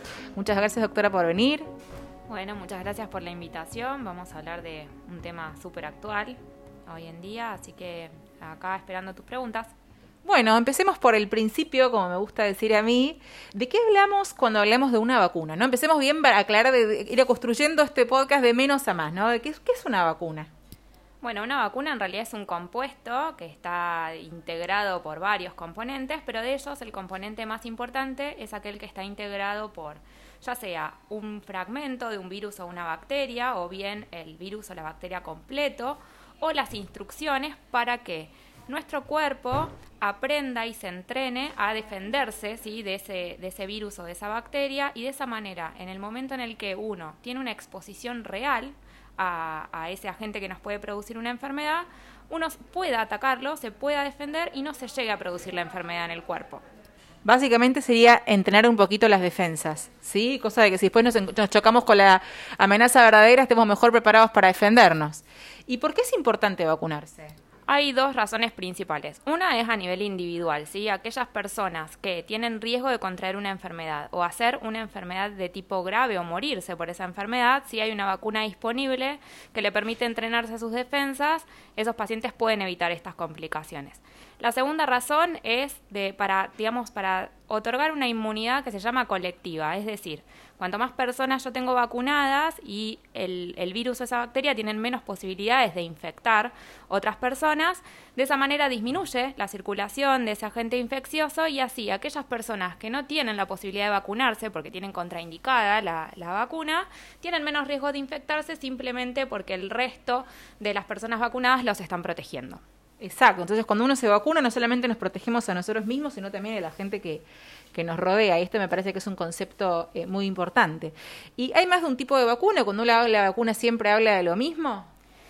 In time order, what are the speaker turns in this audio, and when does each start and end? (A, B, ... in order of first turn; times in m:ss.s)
0:00.4-0:01.7 A
0:02.3-0:09.7 B
0:10.2-0:20.5 A
0:21.2-0:56.6 B
0:57.2-1:07.3 A
1:07.7-1:52.6 B
1:53.0-2:04.9 A